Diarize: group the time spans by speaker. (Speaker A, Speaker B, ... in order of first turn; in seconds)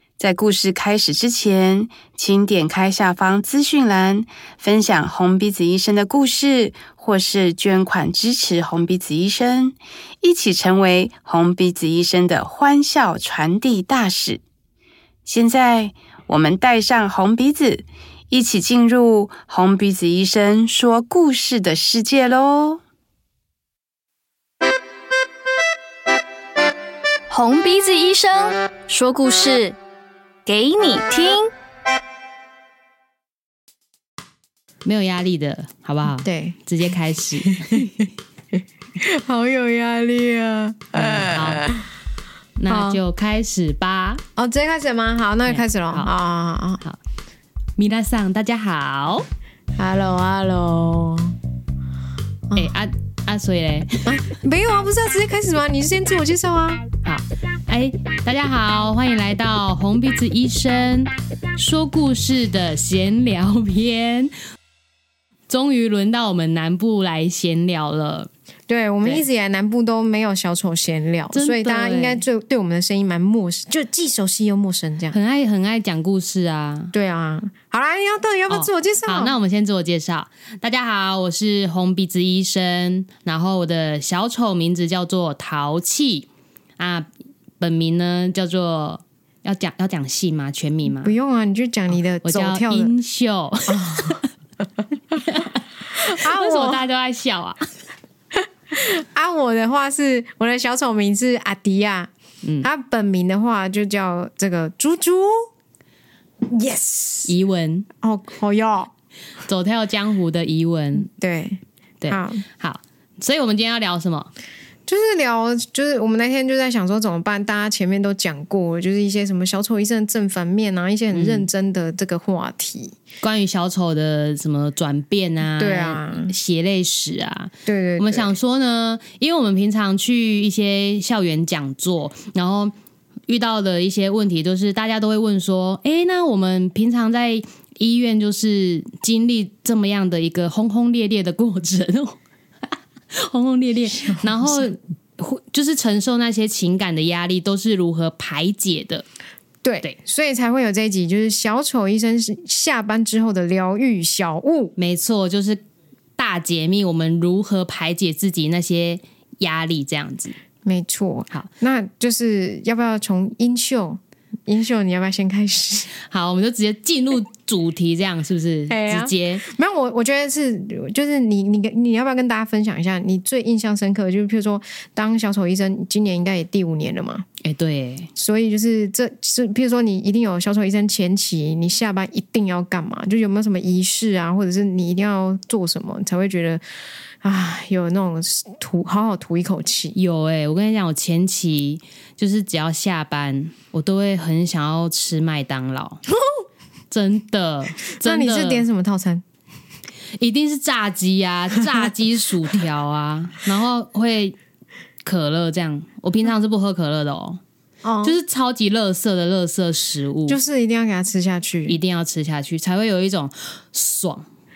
Speaker A: 0.2-14.4, 15.2-22.8
Speaker B: 27.3-29.8, 30.4-31.5
Speaker C: 34.8-37.9, 40.9-41.7, 42.6-44.2, 45.5-46.1, 47.8-49.3, 52.5-54.1, 57.0-64.3, 65.5-68.3, 71.3-72.2, 75.1-76.9, 78.5-86.3, 86.8-87.1, 87.6-91.1, 92.2-94.3, 95.2-97.7, 102.4-102.7, 107.3-107.9, 109.4-111.1, 112.0-114.3, 121.1-121.5, 123.2-132.7, 133.3-142.2, 142.7-149.1, 154.8-155.6, 156.2-160.3, 166.1-169.4, 177.4-178.1, 189.9-196.0, 196.9-198.6, 200.2-204.3, 205.0-207.4, 208.0-210.4, 211.7-214.3
Speaker D: 36.2-36.6, 37.4-41.9, 42.7-43.0, 44.4-46.8, 49.8-51.4, 54.0-56.9, 68.7-75.2, 76.9-79.3, 91.0-92.9, 93.7-94.2, 96.0-96.8, 98.3-102.1, 102.6-105.5, 106.4-107.3, 108.0-108.9, 111.0-112.4, 114.9-123.0, 125.6-126.3, 127.7-128.3, 144.1-144.5, 149.6-154.7, 160.6-165.9, 168.7-177.2, 178.2-186.6, 187.2-189.9, 198.0-199.2, 207.8-208.2, 210.3-211.8